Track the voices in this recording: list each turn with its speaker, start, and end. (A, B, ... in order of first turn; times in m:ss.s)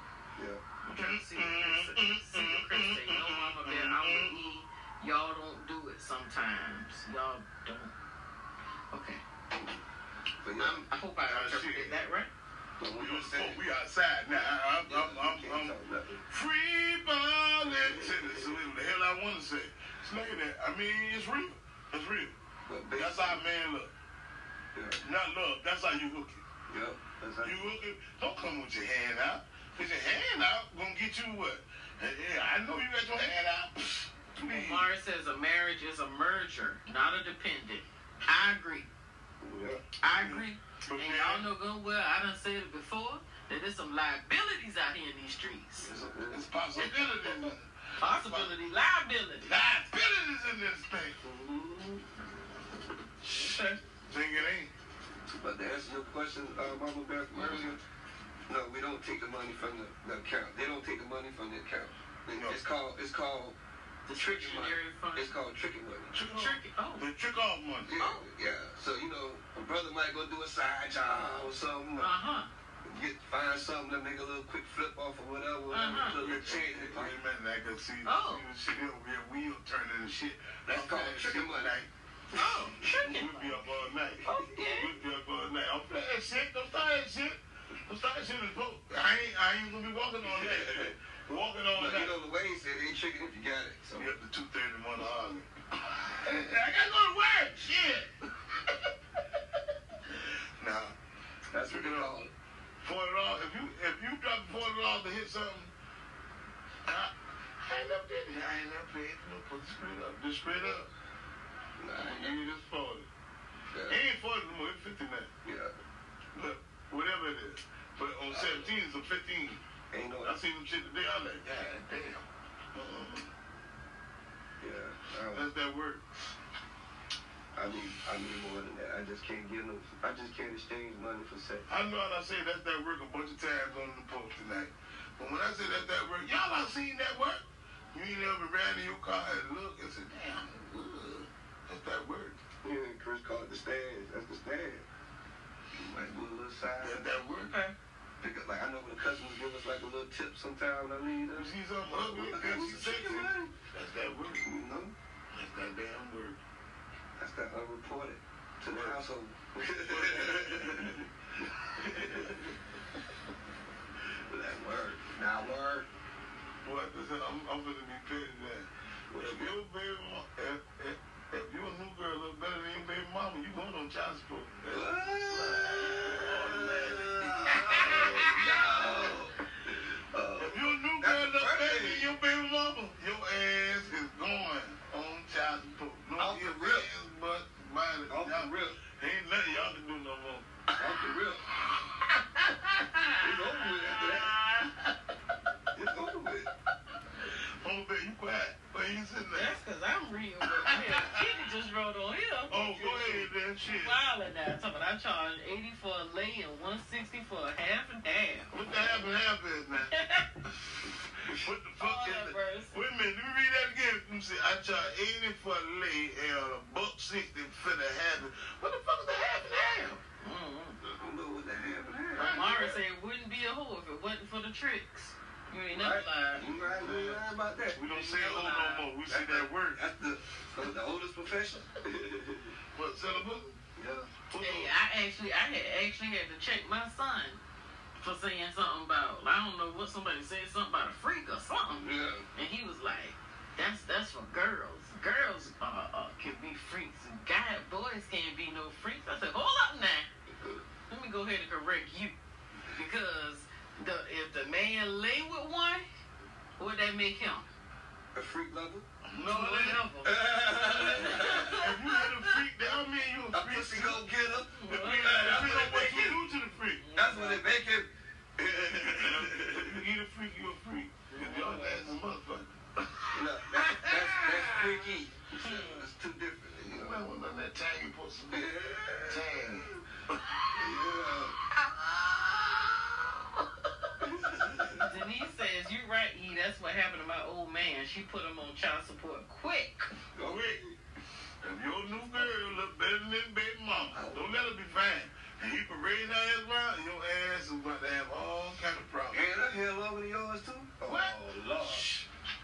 0:00.4-0:00.6 A
0:00.8-0:07.9 B
0:00.9-0:04.3 C
0:08.9-0:09.2 B
0:10.4-0:10.9 A
0:10.6-0:12.3 B
0:11.3-0:12.0 C
0:12.8-0:13.6 A
0:12.8-0:15.8 C
0:14.8-0:16.2 A
0:16.3-0:22.4 C
0:17.8-0:18.6 A
0:22.7-0:23.4 A
0:23.0-0:23.9 C
0:24.7-0:25.0 A
0:25.0-0:26.4 C
0:26.7-0:27.7 A
0:27.4-0:34.9 C
0:34.4-0:38.9 B
0:39.4-0:39.9 A
0:40.0-0:45.9 B
0:40.1-0:41.5 C
0:45.8-0:46.5 A
0:46.3-0:48.5 C
0:46.8-0:49.5 B
0:49.4-0:51.2 C
0:51.2-0:52.0 A
0:53.2-0:53.8 B
0:53.3-0:54.7 C
0:55.3-0:57.8 A
0:57.4-0:57.7 B
0:58.5-1:03.6 A
1:04.1-1:05.3 B
1:04.1-1:06.1 A
1:06.1-1:07.9 C
1:06.3-1:07.1 B
1:07.8-1:12.1 A
1:08.0-1:08.3 B
1:12.0-1:12.5 B
1:12.8-1:17.2 A
1:15.7-1:16.2 B
1:16.0-1:21.9 C
1:18.0-1:18.4 B
1:20.7-1:21.8 A
1:22.3-1:23.6 B
1:22.6-1:23.0 A
1:23.0-1:32.2 C
1:24.2-1:24.9 B
1:30.2-1:31.0 A
1:31.7-1:34.1 A
1:34.0-1:38.9 C
1:40.6-1:40.9 C
1:41.5-1:42.3 A
1:41.7-1:42.2 C
1:42.8-1:45.7 C
1:46.9-1:50.9 C
1:51.8-1:52.5 A
1:52.0-1:53.1 C
1:53.7-1:54.0 A
1:53.9-1:55.3 C
1:55.4-1:55.8 A
1:56.3-1:59.6 C
1:58.3-1:58.8 A
1:59.9-2:00.4 A
2:00.2-2:03.3 C
2:04.6-2:05.5 A
2:05.3-2:06.1 C
2:07.5-2:11.7 A
2:11.7-2:22.4 C
2:22.6-2:24.9 A
2:25.7-2:27.1 A
2:26.8-2:27.6 C
2:27.4-2:27.8 B
2:28.2-2:33.6 A
2:31.3-2:34.5 C
2:34.4-2:35.0 A
2:35.3-2:36.4 C
2:37.2-2:42.6 A
2:38.7-2:39.0 C
2:39.8-2:41.1 C
2:41.7-2:42.4 C
2:44.3-2:45.9 A
2:46.6-2:59.2 C
2:49.1-2:49.6 A
2:54.7-3:02.1 A
3:00.4-3:10.5 C
3:06.2-3:06.9 A
3:08.1-3:08.8 A
3:10.8-3:11.5 A
3:11.7-3:14.9 C
3:13.2-3:14.4 A
3:15.7-3:16.5 A
3:17.3-3:19.6 C
3:19.3-3:29.0 B
3:20.6-3:21.4 C
3:22.5-3:24.1 C
3:28.5-3:30.0 C
3:29.9-3:30.3 B
3:31.2-3:40.0 C
3:31.8-3:32.7 B
3:40.2-3:40.8 B
3:40.8-3:42.5 A
3:42.2-3:42.8 C
3:42.2-3:46.4 B
3:45.7-3:47.9 A
3:46.4-3:49.8 C
3:47.9-3:48.9 B
3:49.1-3:52.6 A
3:52.7-3:53.6 C
3:53.8-3:54.1 A
3:54.3-3:54.7 C
3:54.3-3:57.4 B
3:58.0-4:10.1 B
4:01.8-4:02.3 A
4:10.9-4:15.9 B
4:16.6-4:17.5 B
4:18.1-4:18.9 A
4:19.0-4:19.9 C
4:19.2-4:22.0 B
4:20.0-4:21.6 A
4:21.0-4:24.0 C
4:23.3-4:26.2 A
4:24.5-4:25.4 B
4:24.7-4:26.8 C
4:26.8-4:27.4 B
4:26.9-4:29.8 A
4:28.8-4:34.9 C
4:31.1-4:31.9 B
4:31.2-4:31.8 A
4:33.1-4:37.1 A
4:35.4-4:35.9 B
4:36.7-4:38.5 C
4:38.3-4:39.8 A
4:39.0-4:40.5 C
4:40.5-4:41.4 A
4:41.5-4:42.8 C
4:44.0-4:44.9 A
4:44.8-4:49.9 B
4:50.2-4:50.8 A
4:50.2-4:50.6 C
4:51.4-4:59.3 C
4:53.9-4:54.4 A
4:59.1-5:01.9 A
5:00.9-5:02.1 C